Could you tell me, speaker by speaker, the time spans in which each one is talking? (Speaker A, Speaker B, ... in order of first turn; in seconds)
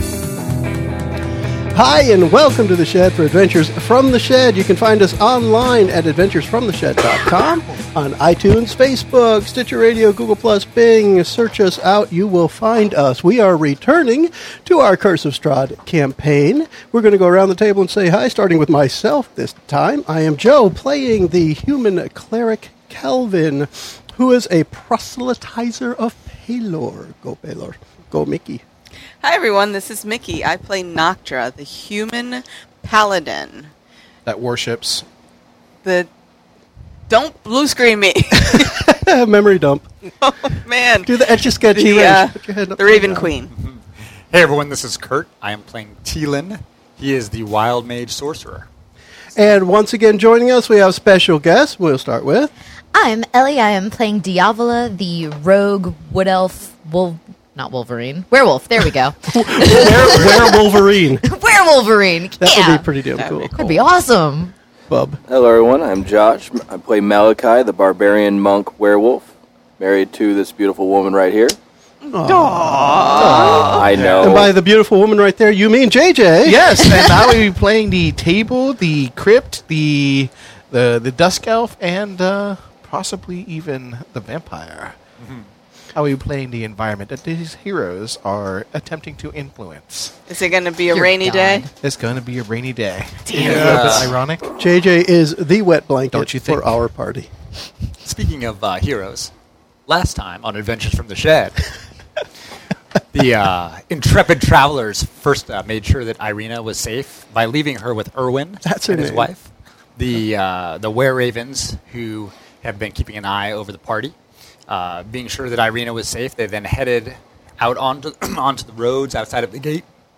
Speaker A: 1.7-28.6, 38.4-39.9, 41.0-43.3, 49.4-52.5, 59.3-61.2, 62.4-63.5, 64.9-65.2, 72.1-76.7, 94.5-97.3, 108.6-109.3
Speaker B: 29.2-33.7, 35.8-36.1, 37.1-38.9, 40.2-43.5, 63.2-63.9, 72.2-74.0, 90.3-91.7
Speaker C: 34.3-35.0, 73.2-73.9, 76.5-85.0, 86.0-90.2, 91.8-94.5, 96.1-96.8
Speaker D: 43.5-48.7, 73.9-74.5, 85.2-85.5, 93.3-94.2, 98.0-99.3, 99.9-101.6, 103.1-114.2, 114.7-119.8
Speaker E: 52.9-60.7, 61.2-62.9, 63.5-64.5, 90.9-91.7, 93.4-93.8
Speaker F: 65.3-71.6, 73.0-74.5